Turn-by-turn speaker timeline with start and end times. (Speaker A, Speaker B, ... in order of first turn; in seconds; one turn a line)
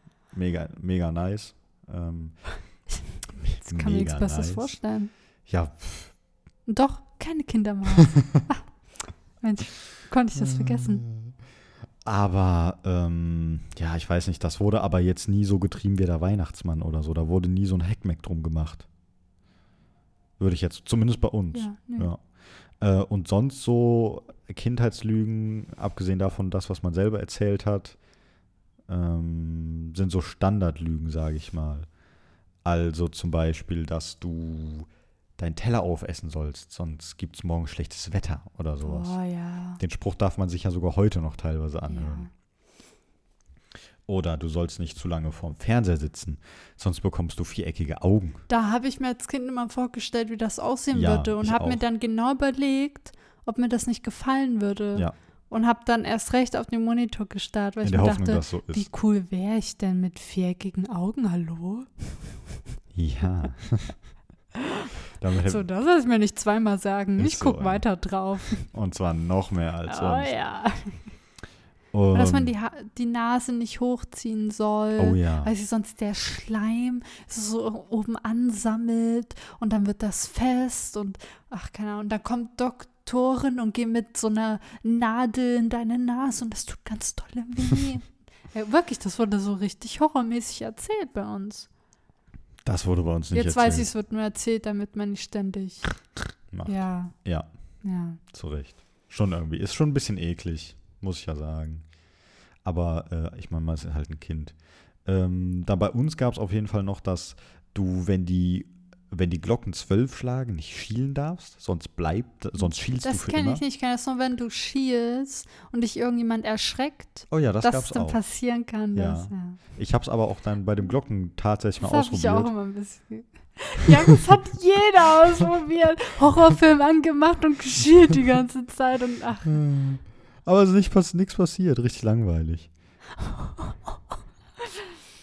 Speaker A: 0.3-2.4
Speaker B: 3.4-5.1
Speaker A: 3.5-4.7
Speaker A: 5.5-6.1
Speaker B: 6.7-8.6
Speaker A: 8.2-8.4
Speaker B: 9.4-11.0
Speaker A: 10.3-11.3
Speaker A: 12.0-18.9
Speaker A: 20.4-22.2
Speaker B: 21.5-22.1
Speaker A: 22.8-28.0
Speaker A: 28.9-31.9
Speaker A: 32.6-39.2
Speaker B: 38.8-39.8
Speaker A: 39.8-42.3
Speaker B: 41.9-42.3
Speaker A: 44.1-48.4
Speaker B: 48.5-62.0
Speaker A: 50.9-51.8
Speaker A: 57.8-58.9
Speaker A: 62.9-64.0
Speaker B: 64.5-68.7
Speaker A: 65.2-65.6
Speaker A: 67.2-67.8
Speaker A: 68.6-70.3
Speaker B: 69.8-71.0
Speaker A: 71.9-72.5
Speaker B: 72.1-91.7
Speaker A: 75.0-75.5
Speaker A: 92.6-93.9
Speaker B: 93.3-96.0
Speaker A: 96.5-97.5
Speaker B: 96.6-97.1
Speaker B: 97.8-98.2
Speaker A: 98.3-101.8
Speaker A: 102.6-113.6
Speaker B: 112.6-119.6
Speaker A: 117.3-118.2
Speaker A: 118.9-122.5
Speaker B: 121.8-129.6
Speaker A: 129.5-132.7
Speaker B: 133.2-133.8